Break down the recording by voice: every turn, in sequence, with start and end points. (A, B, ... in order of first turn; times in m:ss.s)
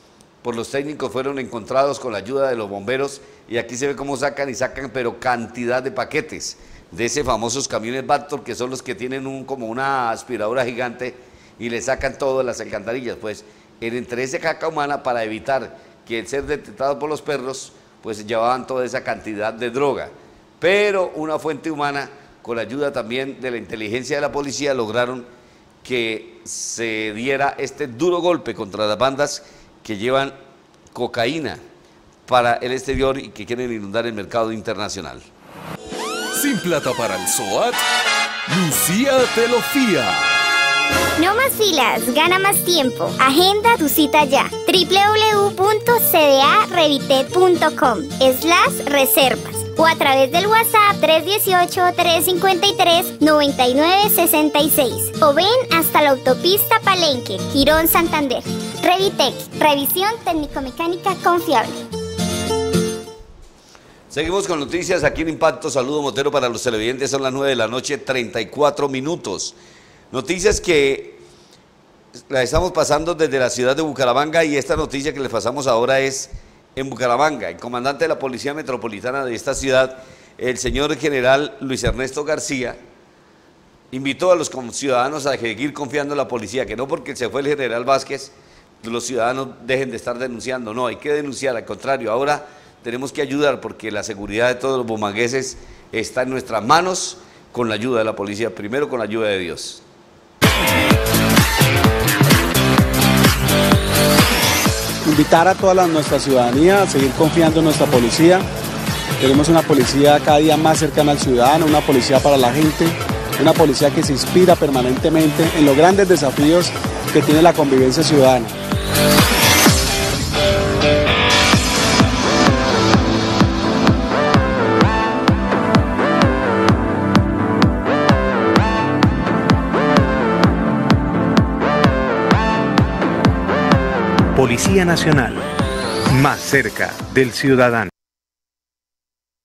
0:00.4-0:25.3 A
0:25.8-0:30.4 A
0:30.9-0:31.6 A
0:32.3-0:35.2 A
0:36.3-0:37.8 B
0:38.5-0:40.3 B
0:41.2-1:01.8 C
1:04.1-1:09.6 A
1:10.1-1:11.2 A
1:12.3-1:22.8 A
1:23.9-1:28.3 A
1:28.8-1:39.8 A
1:45.0-1:48.4 D
1:49.2-1:58.5 D
2:14.4-2:15.4 B
2:16.1-2:17.8 B